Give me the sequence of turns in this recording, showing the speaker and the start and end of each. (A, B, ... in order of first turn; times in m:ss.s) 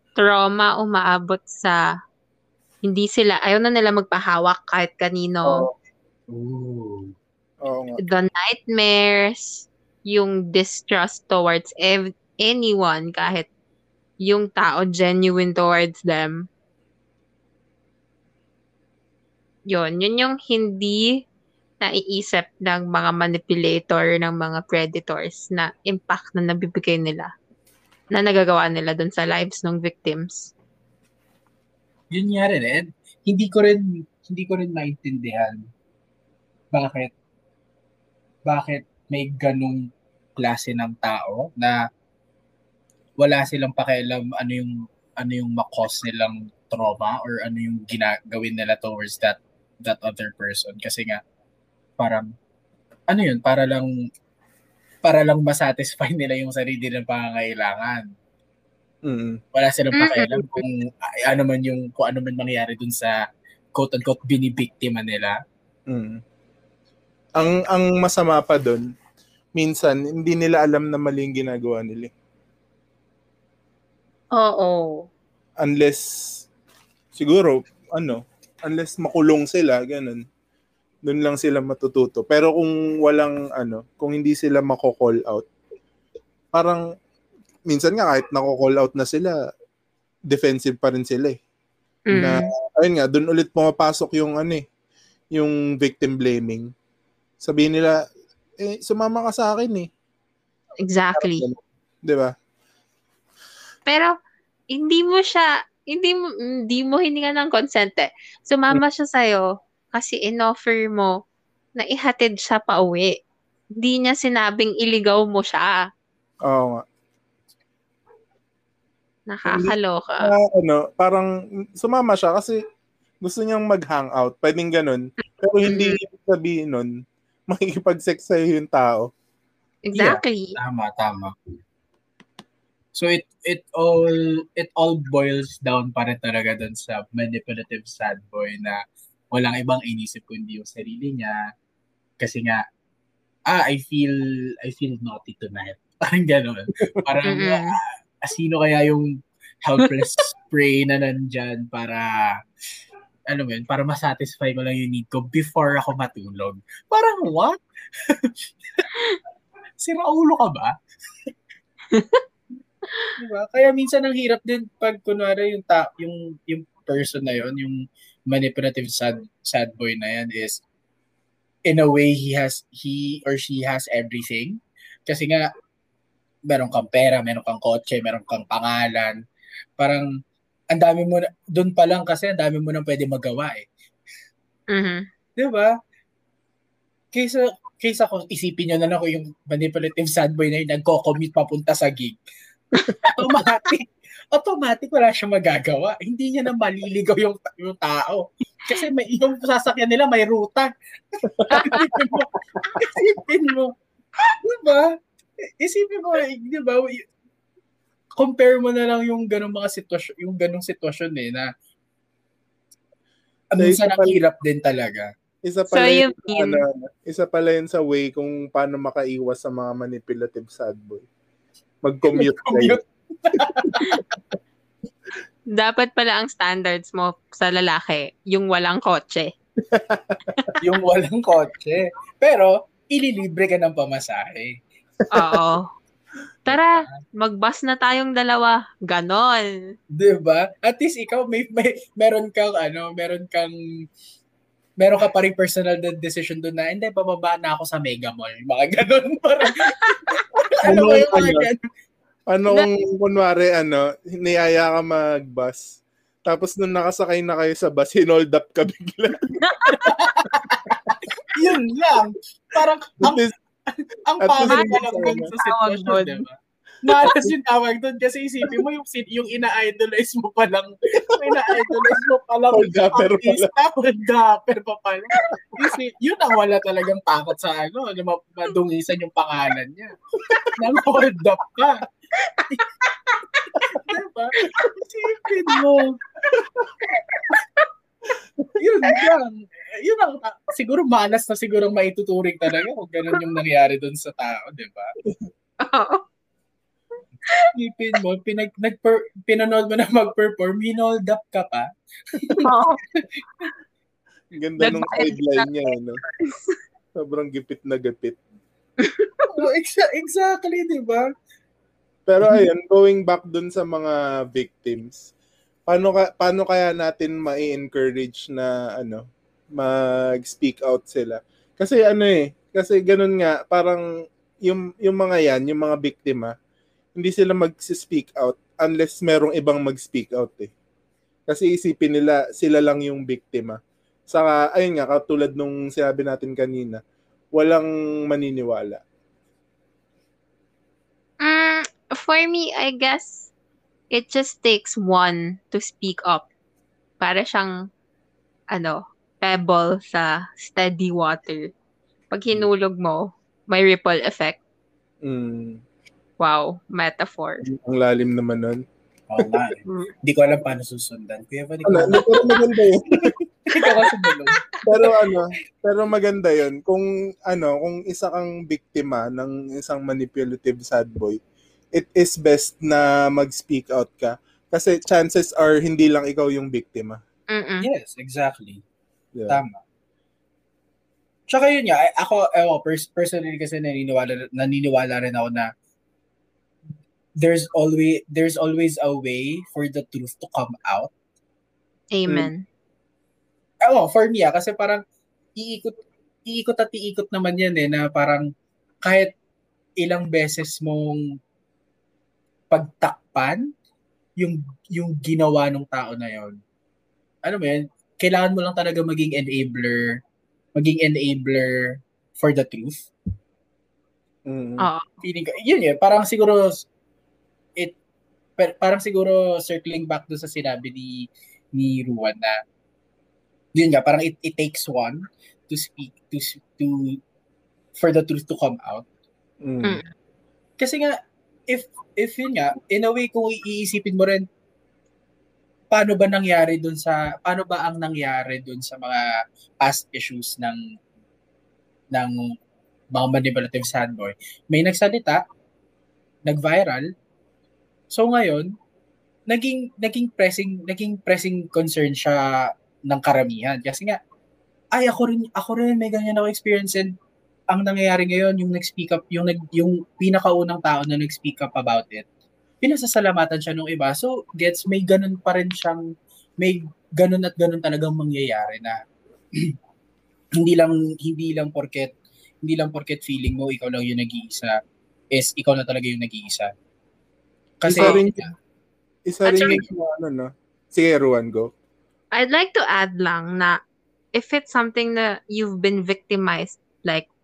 0:00.2-0:01.8 A
0:02.8-0:05.6 A
0:05.4-0:05.7 B
0:06.3-0:07.1 C
0:07.6-0:08.0 B
0:08.0-0:13.5 A
0:14.2-0:16.4 A
0:19.7-0:21.1 A
0:21.8-0:27.3 A
0:28.1-0:30.5 A
0:32.1-0:35.6 C
0:36.7-0:37.1 C
0:38.5-0:39.8 C
0:40.4-0:41.8 C
0:43.2-0:51.2 C
0:52.0-0:52.3 C
0:53.1-0:53.9 C
0:55.0-0:58.1 C
0:59.0-0:59.4 B
0:59.5-1:03.2 C
1:00.0-1:00.4 A
1:03.7-1:05.4 C
1:05.9-1:06.2 B
1:07.4-1:08.8 B
1:09.6-1:12.1 B
1:14.3-1:15.1 A
1:15.6-1:16.5 B
1:17.1-1:20.2 B
1:21.0-1:25.4 B
1:26.5-1:26.8 B
1:27.7-1:29.3 B
1:30.3-1:31.4 B
1:32.1-1:32.5 A
1:32.2-1:34.6 B
1:35.3-1:36.7 B
1:37.4-1:38.0 B
1:38.6-1:39.9 B
1:40.8-1:41.4 A
1:41.1-1:42.3 B
1:43.9-1:44.1 A
1:44.7-1:51.2 A
1:51.8-1:53.2 A
1:53.8-1:55.8 A
1:56.5-1:56.8 B
1:59.3-2:00.3 A
1:59.4-2:02.6 B
2:03.2-2:06.9 B
2:05.7-2:06.0 A
2:07.5-2:09.1 B
2:09.8-2:10.6 A
2:09.9-2:11.3 C
2:12.9-2:18.8 C
2:19.3-2:21.4 C
2:22.2-2:22.6 C
2:23.5-2:32.4 C
2:27.3-2:27.8 A
2:33.3-2:38.9 C
2:39.8-2:40.7 C
2:41.9-2:42.2 A
2:43.2-2:50.6 C
2:51.7-2:55.5 C
2:56.5-2:59.2 C
2:59.8-3:00.1 C
3:00.7-3:03.7 C
3:04.7-3:05.0 A
3:05.4-3:05.7 C
3:07.1-3:12.2 C
3:12.8-3:13.1 A
3:13.0-3:24.9 C
3:21.4-3:22.8 B
3:21.5-3:21.8 A
3:25.6-3:27.1 C
3:28.2-3:31.5 C
3:33.5-3:35.1 C
3:33.6-3:34.2 B
3:35.4-3:41.0 B
3:35.7-3:36.6 A
3:41.8-3:42.8 B
3:42.2-3:44.0 C
3:43.6-3:44.0 B
3:45.5-3:49.3 A
3:49.6-3:50.6 B
3:50.6-3:54.6 C
3:55.1-3:55.7 A
3:55.2-3:55.4 B
3:56.5-3:59.7 A
3:56.5-3:56.9 C
3:59.9-4:03.5 C
4:04.8-4:11.6 C
4:09.8-4:10.2 A
4:10.6-4:11.5 B
4:12.3-4:15.6 B
4:16.3-4:19.4 B
4:19.4-4:20.1 A
4:19.7-4:46.0 C
4:20.7-4:21.0 B
4:23.0-4:23.3 B
4:24.2-4:25.3 B
4:24.4-4:26.2 A
4:27.0-4:27.3 B
4:31.1-4:31.9 B
4:32.5-4:33.5 B
4:35.3-4:35.7 B
4:40.3-4:40.5 B
4:46.3-4:46.7 B
4:48.6-4:54.9 C
4:55.6-4:56.0 A
4:57.5-5:01.7 C
5:02.2-5:02.5 C
5:02.4-5:02.8 A
5:04.4-5:06.0 B
5:04.6-5:06.6 A
5:07.0-5:08.2 B
5:08.8-5:09.3 A
5:09.3-5:11.1 C
5:12.1-5:15.0 B
5:15.7-5:19.0 B
5:19.6-5:23.8 B
5:24.4-5:26.3 B
5:27.0-5:30.5 B
5:31.3-5:33.6 B
5:34.1-5:36.8 B
5:37.3-5:38.8 B
5:41.2-5:43.3 A
5:43.9-5:46.2 A
5:47.0-5:47.5 A
5:48.5-5:51.5 A
5:52.1-5:54.4 A
5:55.0-5:55.6 B
5:56.2-5:57.4 A
5:57.4-5:58.6 B
5:59.1-6:02.3 C
6:01.7-6:03.1 B
6:03.1-6:04.7 C
6:03.6-6:04.4 A
6:04.6-6:11.2 B
6:11.7-6:17.0 B
6:17.3-6:17.7 A
6:17.6-6:18.6 C
6:19.3-6:19.6 C
6:21.3-6:25.5 C
6:27.2-6:30.9 C
6:31.9-6:32.4 A
6:33.6-6:34.8 C
6:35.4-6:38.3 C
6:38.8-6:39.1 C
6:39.8-6:41.0 C
6:42.5-6:43.5 C
6:44.2-6:46.4 C
6:47.2-6:50.0 C
6:50.6-6:52.9 C
6:54.3-6:54.7 B
6:54.6-6:54.8 A
6:55.0-6:56.7 C
6:58.4-7:02.4 C
7:03.6-7:07.0 C
7:07.8-7:08.9 C
7:09.4-7:09.8 B
7:09.6-7:09.9 A
7:10.6-7:10.9 C
7:11.5-7:14.2 C
7:15.7-7:19.0 C
7:19.6-7:20.6 C
7:22.9-7:25.2 C
7:26.3-7:26.8 C
7:27.9-7:28.5 C
7:29.3-7:34.0 C
7:34.7-7:36.9 C
7:37.5-7:42.0 C
7:42.6-7:45.8 C
7:46.4-7:48.8 C
7:50.4-7:54.6 C
7:55.1-7:56.5 C
7:57.6-7:58.3 C
7:57.6-7:58.2 B
7:59.1-8:01.5 B
7:59.2-7:59.6 A
8:02.1-8:03.6 A
8:04.1-8:07.0 A